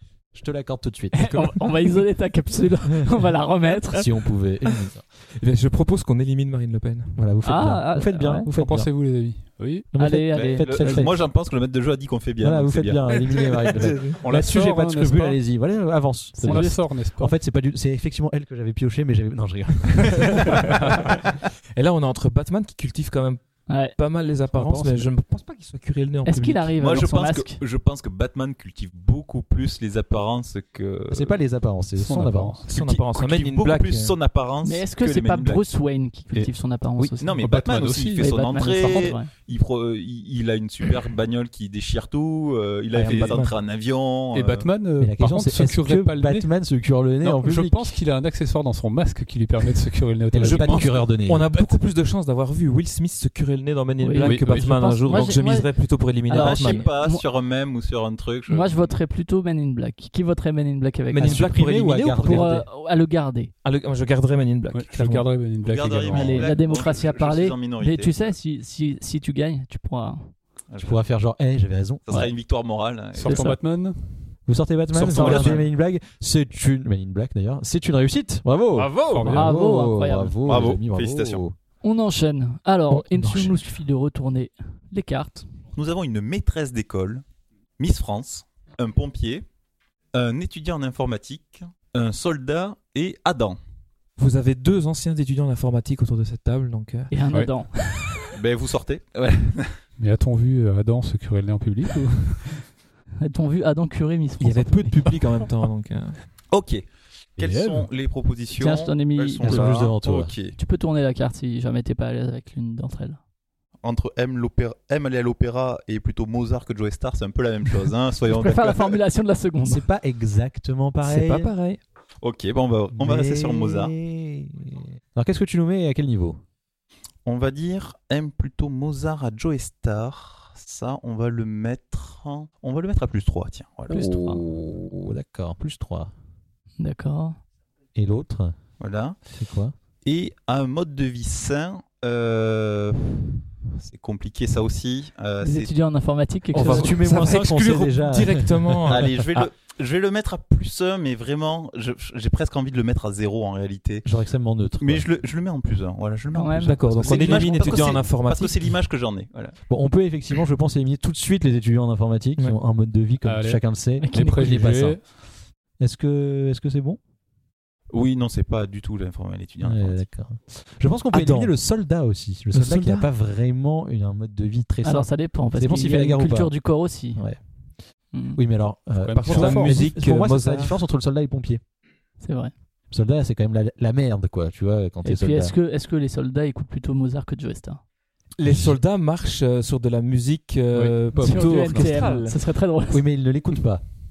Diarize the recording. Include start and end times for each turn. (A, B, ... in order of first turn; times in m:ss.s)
0:00.3-0:01.5 A
0:01.1-0:04.1 B
0:03.9-0:05.0 A
0:05.4-0:07.2 C
0:07.2-0:08.9 A
0:07.4-0:08.5 B
0:08.5-0:09.9 D
0:09.9-0:11.2 A
0:10.0-0:11.1 B
0:10.3-0:13.1 E
0:12.4-0:20.8 A
0:13.7-0:14.2 C
0:14.2-0:15.4 D
0:16.4-0:16.8 B
0:16.4-0:17.4 D
0:20.1-0:21.2 C
0:21.8-0:23.4 C
0:23.7-0:24.0 B
0:24.0-0:26.8 C
0:24.5-0:25.1 D
0:26.3-0:27.6 B
0:26.8-0:31.4 E
0:31.1-0:32.6 A
0:32.0-0:32.7 D
0:32.7-0:34.2 C
0:32.7-0:35.6 E
0:34.6-0:37.3 B
0:37.2-0:44.7 E
0:37.4-0:38.4 D
0:38.2-0:39.3 B
0:43.0-0:43.4 A
0:43.0-0:43.5 C
0:44.3-0:46.5 D
0:45.0-0:48.0 A
0:47.2-0:51.7 D
0:50.3-0:51.5 A
0:50.4-0:56.9 C
0:54.0-0:55.7 B
0:54.2-0:55.3 D
0:56.3-0:57.3 B
0:56.3-0:59.0 E
0:58.5-1:01.5 B
1:01.1-1:02.6 C
1:01.2-1:02.7 A
1:02.2-1:03.5 B
1:03.6-1:05.3 C
1:04.7-1:06.5 D
1:05.6-1:08.3 E
1:06.1-1:10.3 B
1:10.7-1:11.0 E
1:10.8-1:12.3 A
1:12.1-1:13.5 E
1:13.1-1:14.2 D
1:13.2-1:13.6 B
1:14.5-1:21.6 A
1:15.0-1:15.6 E
1:15.2-1:15.6 C
1:18.7-1:19.4 C
1:19.1-1:19.5 D
1:19.3-1:20.4 B
1:20.5-1:21.4 E
1:21.8-1:25.5 B
1:22.9-1:23.6 C
1:25.7-1:27.2 E
1:27.8-1:29.4 E
1:30.1-1:33.6 E
1:34.2-1:37.1 C
1:37.1-1:38.3 B
1:38.3-1:39.8 E
1:40.0-1:42.6 D
1:43.2-1:45.0 B
1:44.4-1:46.2 C
1:46.5-1:46.8 E
1:47.4-1:50.6 E
1:47.4-1:47.9 D
1:48.6-1:49.8 B
1:49.4-1:50.3 A
1:50.6-1:53.2 B
1:53.8-1:59.0 E
1:58.3-1:59.8 B
1:59.6-2:01.5 A
2:01.0-2:01.8 C
2:02.2-2:04.0 E
2:03.0-2:06.4 A
2:07.3-2:14.2 E
2:13.9-2:14.4 B
2:13.9-2:16.1 A
2:16.8-2:17.4 B
2:18.0-2:18.6 A
2:18.8-2:19.2 E
2:19.3-2:19.8 A
2:20.0-2:25.7 E
2:25.4-2:27.0 B
2:26.5-2:29.1 A
2:26.5-2:29.5 C
2:28.9-2:34.1 E
2:34.0-2:35.1 A
2:34.8-2:39.6 E
2:36.3-2:37.8 B
2:36.6-2:38.6 C
2:39.7-2:45.0 A
2:43.2-2:45.0 D
2:44.0-2:44.5 B
2:45.8-2:47.0 A
2:47.9-2:50.0 E
2:49.6-2:56.6 A
2:51.1-2:51.5 C
2:52.5-2:53.1 C
2:54.8-2:57.2 B
2:58.1-2:58.4 B
2:58.3-3:01.6 A
2:59.0-2:59.9 D
2:59.2-3:00.8 C
3:02.2-3:02.5 B
3:02.9-3:05.6 A
3:05.0-3:07.8 B
3:08.4-3:12.4 C
3:08.5-3:08.8 A
3:11.2-3:12.1 A
3:11.2-3:13.0 B
3:12.9-3:13.8 A